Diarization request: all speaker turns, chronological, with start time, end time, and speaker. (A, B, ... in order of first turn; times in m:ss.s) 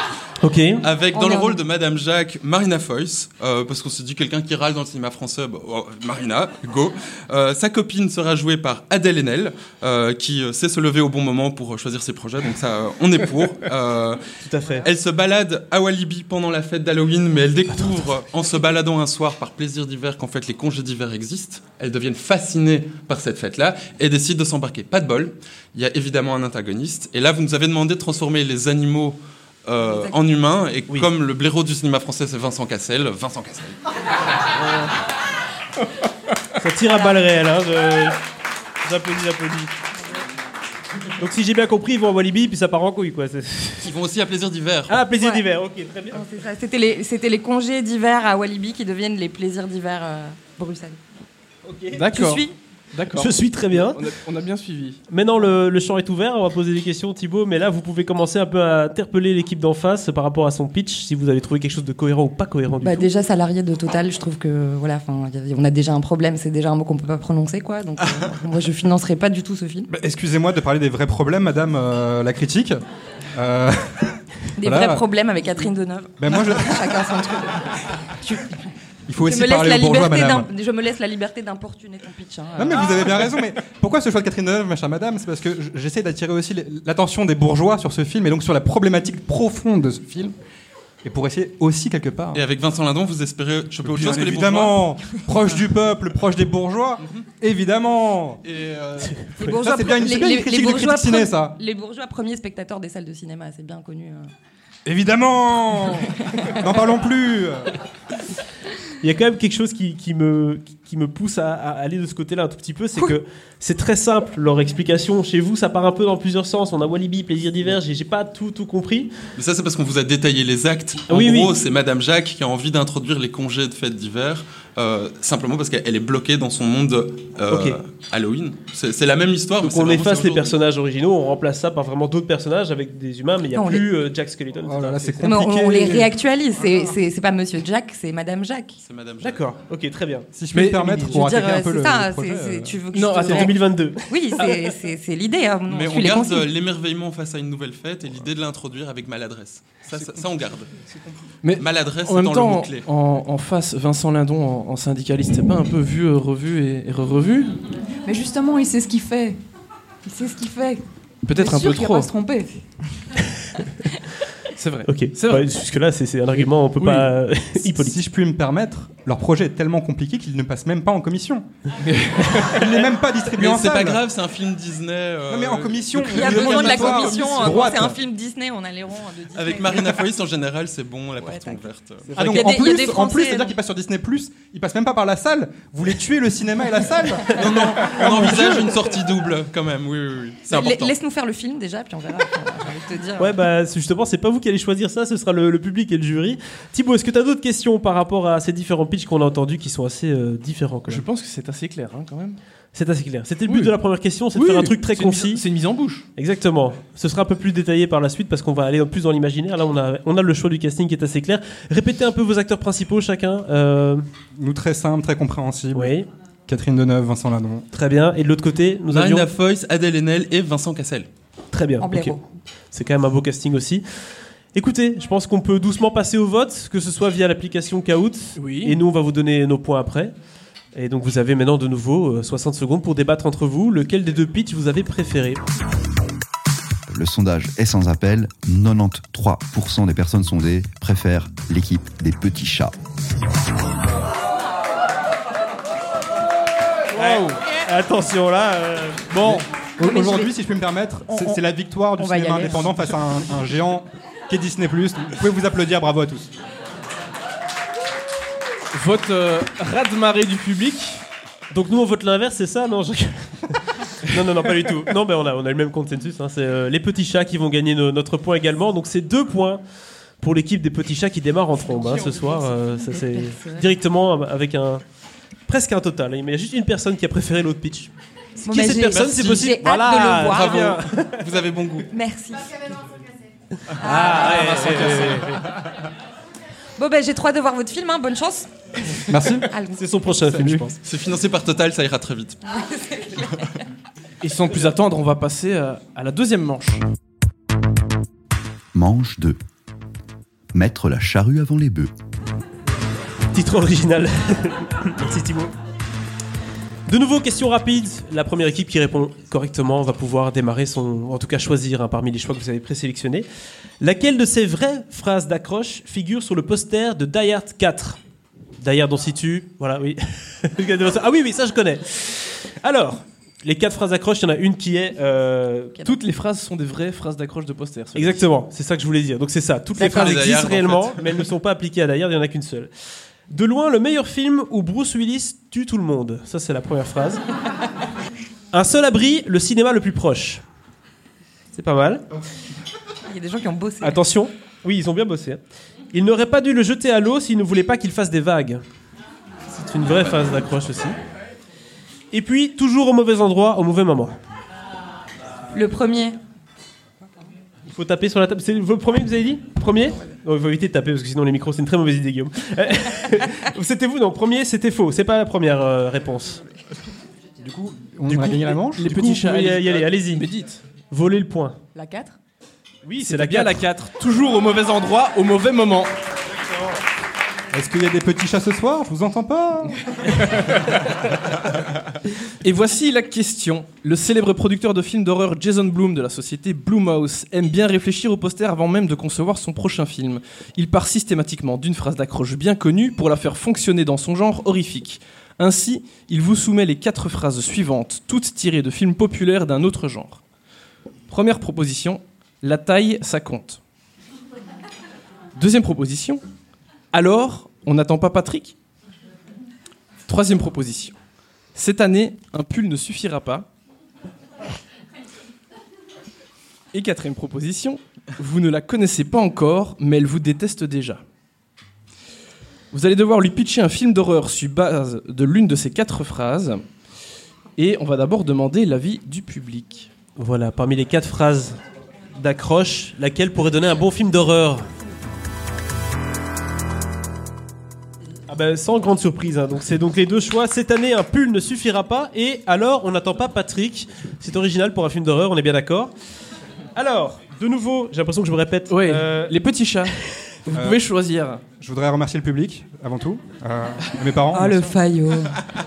0:00.4-0:00.8 A
0:00.8-0:14.2 B
0:01.1-0:01.6 C
0:14.4-0:14.9 A
0:14.8-0:33.8 B
0:36.6-0:38.2 A
0:36.8-0:37.2 C
0:38.8-0:39.7 A
0:41.2-0:43.9 A
0:43.8-0:45.0 B
0:44.9-0:46.2 A
0:45.2-0:45.4 C
0:46.1-0:51.0 C
0:51.6-0:52.0 A
0:51.9-0:55.0 D
0:52.1-0:52.5 C
0:53.1-0:54.0 A
0:55.1-1:03.1 A
1:02.8-1:09.9 C
1:09.9-1:12.8 E
1:13.3-1:15.0 E
1:14.6-1:18.7 C
1:16.2-1:17.0 E
1:19.1-1:20.5 E
1:19.2-1:23.3 C
1:22.6-1:30.3 E
1:31.0-1:32.4 E
1:32.3-1:34.9 B
1:33.8-1:38.4 E
1:38.4-1:39.3 B
1:39.4-1:41.6 E
1:39.4-1:44.3 C
1:44.8-1:47.7 E
1:49.0-1:59.1 A
1:59.4-2:10.6 B
2:01.1-2:01.6 A
2:07.5-2:07.8 A
2:09.6-2:15.2 A
2:13.5-2:13.8 C
2:14.6-2:16.1 E
2:15.2-2:18.8 C
2:18.8-2:19.4 B
2:19.2-2:21.2 A
2:20.3-2:22.8 E
2:20.5-2:20.8 D
2:21.1-2:26.5 C
2:22.9-2:23.5 D
2:23.3-2:24.7 A
2:25.7-2:30.7 B
2:31.4-2:37.6 D
2:31.6-2:32.8 B
2:38.0-2:39.4 F
2:40.0-2:42.5 F
2:41.2-2:42.1 D
2:44.5-2:45.5 D
2:44.9-2:48.0 A
2:46.8-2:47.1 D
2:47.8-2:51.5 E
2:51.8-2:52.6 D
2:52.2-2:54.0 E
2:53.4-2:56.9 B
2:55.3-2:58.0 E
2:56.0-3:00.0 C
2:59.3-3:02.1 B
3:01.2-3:03.5 C
3:02.2-3:08.5 E
3:07.3-3:10.9 B
3:08.0-3:08.8 A
3:10.5-3:13.3 C
3:13.2-3:21.0 A
3:20.9-3:22.4 D
3:22.7-3:25.4 A
3:23.5-3:23.8 D
3:24.3-3:26.1 D
3:26.2-3:34.0 A
3:34.3-3:35.9 E
3:35.7-3:36.1 A
3:36.5-3:37.6 E
3:37.7-3:39.3 A
3:38.9-3:41.1 B
3:41.5-3:43.8 A
3:41.8-3:42.2 C
3:44.5-3:50.1 A
3:48.4-3:48.8 D
3:50.7-3:55.4 A
3:56.9-4:02.8 G
4:06.9-4:07.4 D
4:06.9-4:09.1 A
4:09.1-4:09.4 D
4:09.2-4:16.3 E
4:09.8-4:10.3 C
4:11.1-4:11.4 C
4:12.0-4:12.7 C
4:18.7-4:21.0 D
4:21.5-4:29.6 A
4:30.2-4:34.8 A
4:31.6-4:33.7 C
4:35.5-4:37.9 A
4:38.4-4:40.8 C
4:38.4-4:41.2 A
4:40.3-4:41.9 B
4:41.9-4:42.7 C
4:43.7-4:45.5 A
4:43.7-4:45.0 C
4:46.8-4:49.8 C
4:49.1-4:49.5 E
4:49.7-4:50.8 A
4:50.3-4:50.7 E
4:50.8-4:52.4 B
4:52.5-4:53.5 C
4:54.2-4:56.8 D
4:58.7-4:59.4 G
5:00.5-5:01.9 G
5:03.3-5:05.5 A
5:06.9-5:13.2 A
5:13.8-5:18.0 A
5:18.6-5:25.8 A
5:25.8-5:28.2 D
5:27.9-5:32.7 A
5:29.7-5:31.2 B
5:33.3-5:37.2 A
5:38.5-5:40.4 A
5:41.5-5:42.1 A
5:43.1-5:44.0 C
5:43.8-5:45.4 A
5:45.9-5:48.6 A
5:49.5-5:51.0 A
5:52.1-5:54.1 A
5:55.5-5:56.2 C
5:57.6-6:06.4 A
6:07.4-6:08.9 E
6:08.1-6:10.2 A
6:08.7-6:10.6 D
6:10.9-6:11.6 A
6:11.7-6:12.2 F
6:12.8-6:13.6 A
6:13.0-6:15.9 D
6:17.5-6:20.6 E
6:22.4-6:40.2 D
6:41.1-6:43.6 D
6:45.3-6:46.2 D
6:46.9-6:48.5 D
6:50.0-6:50.9 D
6:51.5-6:53.5 D
6:56.7-7:01.0 D
7:02.7-7:06.6 D
7:07.6-7:09.9 D
7:10.2-7:11.6 A
7:12.1-7:14.7 A
7:18.3-7:25.9 A
7:26.8-7:29.4 A
7:28.7-7:31.4 D
7:30.5-7:30.8 E
7:31.6-7:34.7 E
7:34.3-7:35.4 C